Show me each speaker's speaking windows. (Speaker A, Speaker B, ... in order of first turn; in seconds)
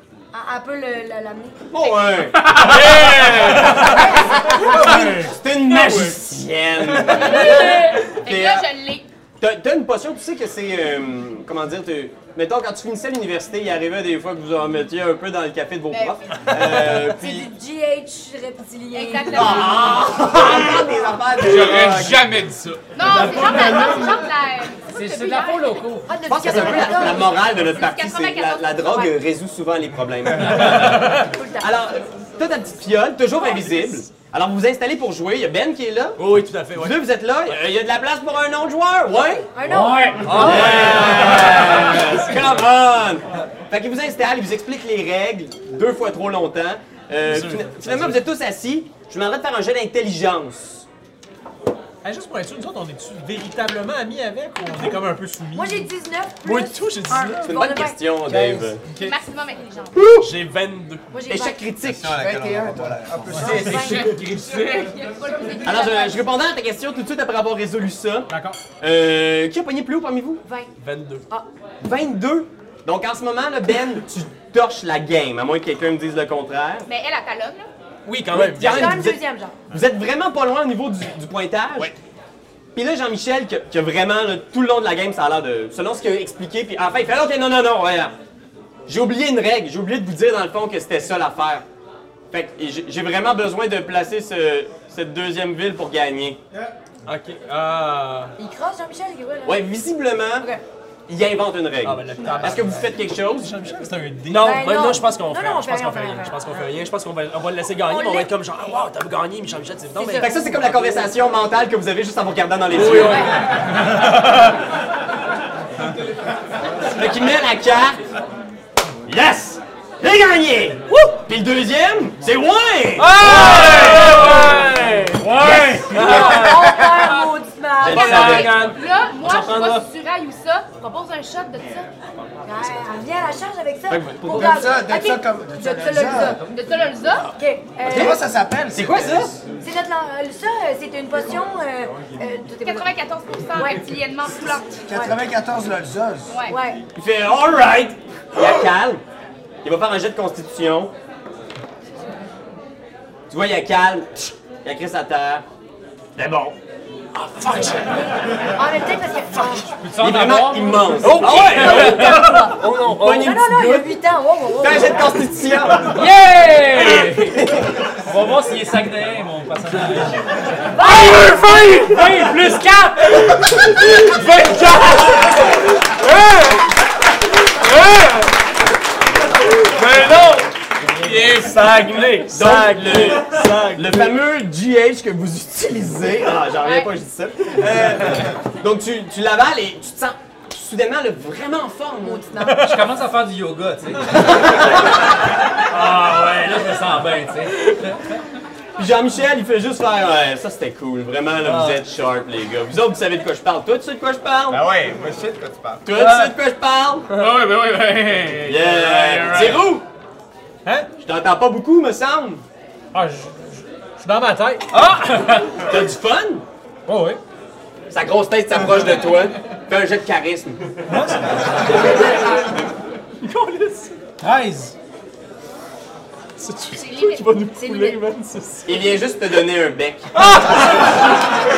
Speaker A: 0.3-1.7, 3.8-4.5, 16.9-19.7, 26.1-27.4, 31.2-31.7, 39.5-40.8, 55.5-58.0, 61.1-61.6, 63.4-64.1, 70.4-70.7, 78.6-79.5, 98.4-99.7, 104.4-106.4, 107.8-108.3, 109.9-110.4, 126.0-128.4, 132.4-136.4, 137.4-138.2, 139.6-142.9, 143.5-143.8, 146.5-146.8, 158.5-159.7, 162.2-162.5, 163.2-165.1, 170.7-171.8, 192.0-192.7, 227.5-228.0
Speaker B: 1.7-2.8, 3.3-8.7, 9.4-17.5, 19.3-22.2, 26.2-39.6, 40.4-50.9, 57.5-58.8, 59.9-60.3, 61.3-62.1, 65.6-70.4, 71.8-76.9, 78.3-81.9, 82.7-88.1, 88.9-91.6, 92.3-96.4, 99.4-100.5, 101.1-103.6, 110.2-113.4, 116.9-118.0, 119.1-124.6, 125.3-126.5, 127.8-128.7, 133.9-134.7, 138.7-139.4, 146.9-149.0, 149.6-150.9, 153.3-155.4, 156.2-156.6, 160.0-164.0, 164.6-166.0, 167.3-167.7, 182.3-192.3, 198.8-204.7, 205.8-207.2, 208.4-209.8, 211.0-212.4, 215.6-216.4, 217.9-220.8, 228.7-230.8
Speaker C: 2.4-3.6, 5.7-6.2, 21.4-22.9, 181.0-181.9, 207.2-209.8
Speaker D: 2.5-4.0, 36.2-37.6, 40.2-42.6, 47.2-48.2, 56.4-57.6, 60.2-61.0, 64.0-64.6, 70.8-71.2, 78.0-79.0, 97.0-98.3, 101.8-102.9, 104.2-110.4, 112.7-113.3, 123.0-126.9, 127.8-129.8, 157.1-158.1, 161.0-163.4, 170.8-172.3, 173.6-176.7, 177.4-178.3, 179.5-184.1, 195.8-196.2, 201.4-201.8, 205.9-206.3, 214.7-215.5, 221.7-222.1, 223.2-224.0, 226.4-229.0, 230.1-231.1
Speaker E: 3.3-3.5, 4.5-5.3, 52.0-55.9, 63.3-64.0, 68.3-68.6, 103.4-104.7, 192.4-192.8, 212.9-215.1, 216.9-217.2, 220.9-221.3, 224.2-224.7
Speaker F: 7.1-9.1, 15.9-16.5, 18.9-20.1, 22.9-25.9, 27.0-29.2, 59.0-60.0, 64.4-66.3, 76.8-77.7, 127.9-131.9, 136.5-137.3, 142.6-144.8, 146.3-146.6, 186.6-186.9, 226.7-227.3
Speaker G: 23.5-23.9, 24.9-26.1, 39.6-40.5, 63.6-64.9, 125.2-125.9, 159.8-161.4, 165.9-167.4, 168.0-171.1, 171.8-173.2, 192.6-194.4, 195.7-197.9
Speaker H: 58.3-58.7, 62.0-64.1, 134.3-136.4, 137.8-139.4, 144.9-146.3
Speaker I: 61.8-63.6, 204.5-205.9